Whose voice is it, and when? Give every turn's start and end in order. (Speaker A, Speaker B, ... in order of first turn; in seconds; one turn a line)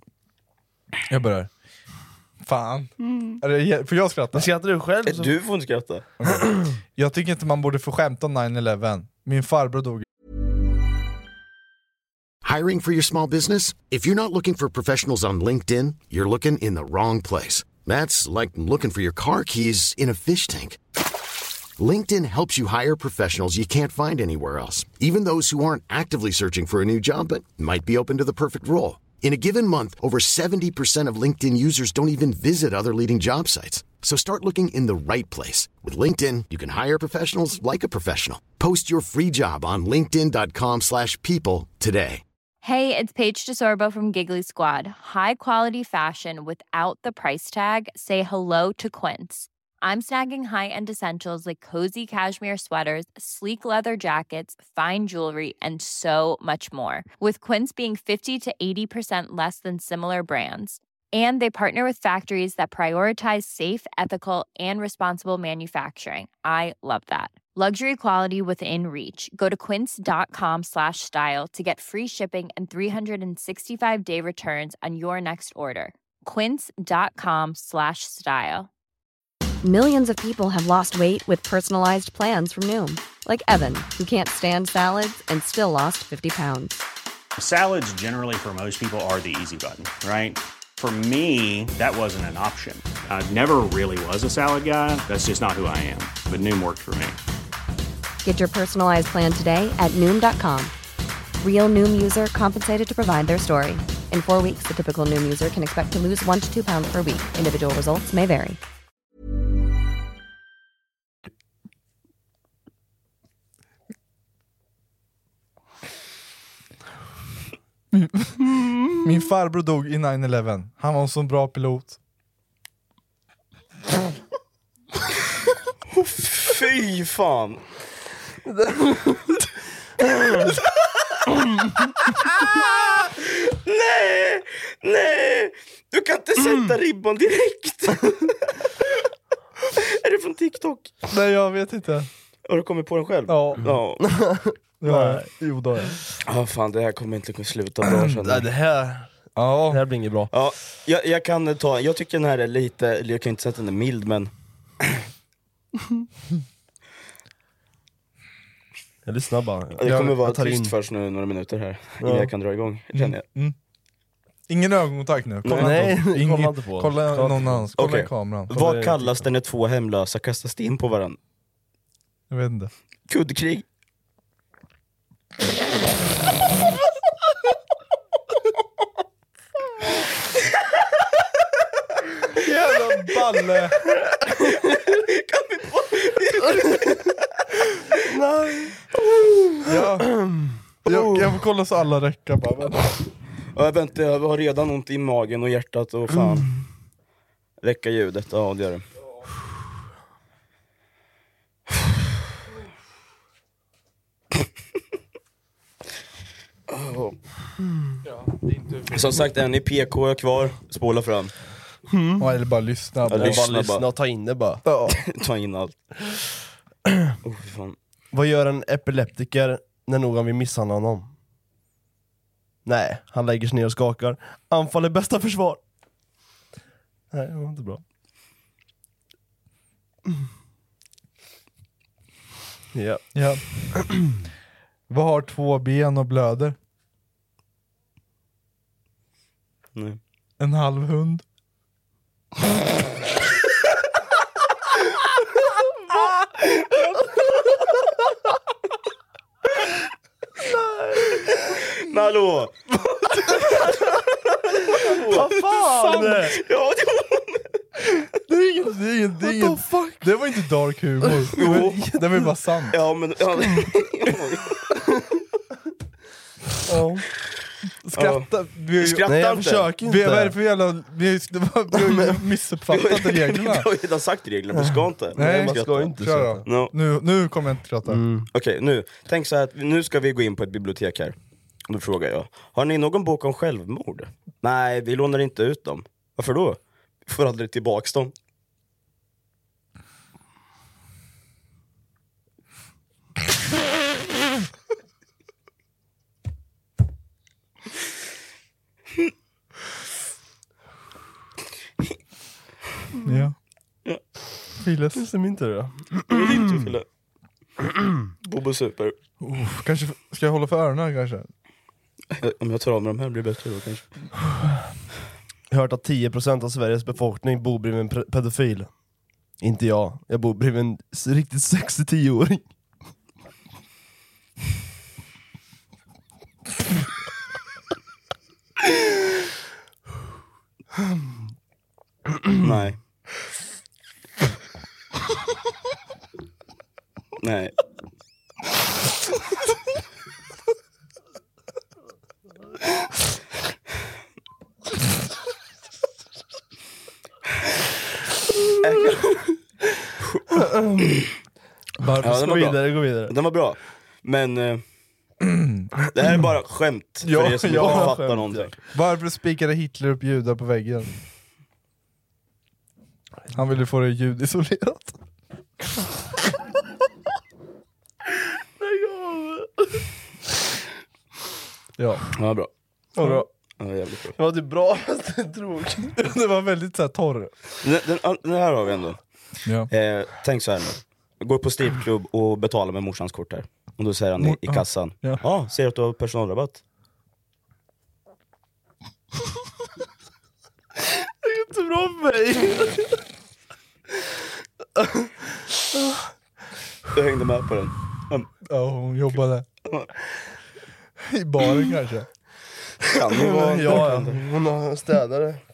Speaker A: 1.1-1.5
Speaker A: 2.4-4.5
Speaker B: 3.0-3.4
Speaker B: 4.3-5.3
Speaker C: 5.0-6.0
Speaker A: 6.2-10.0
Speaker D: 12.4-20.8
Speaker D: 21.8-42.2
Speaker E: 42.6-78.7
Speaker F: 79.6-86.8
Speaker G: 87.4-97.2
Speaker F: 98.2-100.7
Speaker F: 101.4-108.6
Speaker A: 117.9-122.0
Speaker C: 125.9-127.6
Speaker B: 128.4-129.2
Speaker B: 130.1-130.5
Speaker C: 133.2-138.5
Speaker C: 139.8-140.9
Speaker A: 141.1-142.1
Speaker C: 142.5-144.0
Speaker A: 143.3-143.6
Speaker B: 144.0-145.3
Speaker A: 144.8-145.9
Speaker C: 146.2-148.5
Speaker A: 147.9-148.2
Speaker B: 148.1-149.1
Speaker A: 149.3-149.8
Speaker B: 149.6-150.3
Speaker C: 150.3-154.3
Speaker B: 159.0-160.7
Speaker C: 159.8-163.2
Speaker B: 162.0-162.3
Speaker A: 162.9-163.6
Speaker A: 164.5-168.5
Speaker C: 165.4-165.7
Speaker B: 165.5-167.8
Speaker C: 167.8-171.2
Speaker B: 168.5-169.2
Speaker A: 172.3-172.7
Speaker C: 173.1-173.6
Speaker A: 182.3-183.8
Speaker C: 184.3-187.1
Speaker B: 186.4-186.9
Speaker B: 188.1-188.8
Speaker A: 189.7-190.1
Speaker B: 189.7-190.6
Speaker A: 190.8-192.9
Speaker C: 190.9-191.2
Speaker C: 193.5-196.5
Speaker C: 197.6-198.8
Speaker C: 206.7-207.2
Speaker C: 208.8-211.3
Speaker B: 211.9-212.3
Speaker A: 212.2-213.4
Speaker C: 213.1-213.8
Speaker B: 213.1-214.6
Speaker A: 214.6-214.9
Speaker C: 214.9-215.8
Speaker C: 217.2-217.8
Speaker B: 218.1-221.1
Speaker B: 222.6-225.6
Speaker B: 227.1-227.8
Speaker B: 232.7-233.1
Speaker A: 233.1-233.4
Speaker B: 233.7-234.0
Speaker A: 234.9-236.6
Speaker A: 240.4-241.2
Speaker B: 250.4-251.3
Speaker C: 251.7-252.5
Speaker C: 254.7-255.3
Speaker B: 255.1-256.4
Speaker A: 255.7-256.1
Speaker C: 256.3-257.5
Speaker A: 258.2-262.8
Speaker B: 259.2-260.1
Speaker B: 261.0-262.2
Speaker C: 261.3-261.8
Speaker C: 262.7-264.8
Speaker B: 266.7-267.1
Speaker A: 267.9-269.1
Speaker C: 267.9-268.3
Speaker C: 268.8-269.7
Speaker B: 269.1-270.4
Speaker A: 269.8-273.7
Speaker B: 271.7-272.2
Speaker C: 272.7-275.9
Speaker B: 274.6-276.4
Speaker A: 275.1-278.0
Speaker C: 276.4-276.7
Speaker B: 277.9-278.3
Speaker C: 278.3-281.1
Speaker C: 281.7-288.1
Speaker A: 303.0-303.3
Speaker A: 304.6-305.0
Speaker B: 304.9-306.7
Speaker C: 306.1-306.8
Speaker C: 308.2-308.9
Speaker A: 309.2-311.3
Speaker C: 312.2-313.9
Speaker B: 315.5-318.7
Speaker B: 319.4-322.4
Speaker C: 332.4-332.8
Speaker C: 337.2-337.5
Speaker C: 348.6-349.3
Speaker C: 350.1-351.1
Speaker B: 350.4-351.1
Speaker A: 351.8-352.2
Speaker B: 352.0-353.1
Speaker C: 352.0-354.6
Speaker A: 355.2-355.9
Speaker C: 355.9-358.5
Speaker A: 357.0-357.9
Speaker B: 357.4-358.5
Speaker A: 358.7-360.9
Speaker A: 363.3-365.0
Speaker B: 368.6-369.8
Speaker A: 371.8-372.1
Speaker C: 372.1-372.5
Speaker B: 372.9-373.3
Speaker A: 373.0-373.2
Speaker C: 373.6-374.1
Speaker B: 374.1-375.9
Speaker A: 376.0-377.3
Speaker C: 377.6-379.0
Speaker C: 379.7-386.6
Speaker A: 384.2-385.2
Speaker B: 390.8-393.0
Speaker B: 394.8-396.0
Speaker C: 396.9-398.3
Speaker A: 398.5-399.4
Speaker A: 401.0-402.1
Speaker C: 402.9-404.2
Speaker B: 403.1-405.4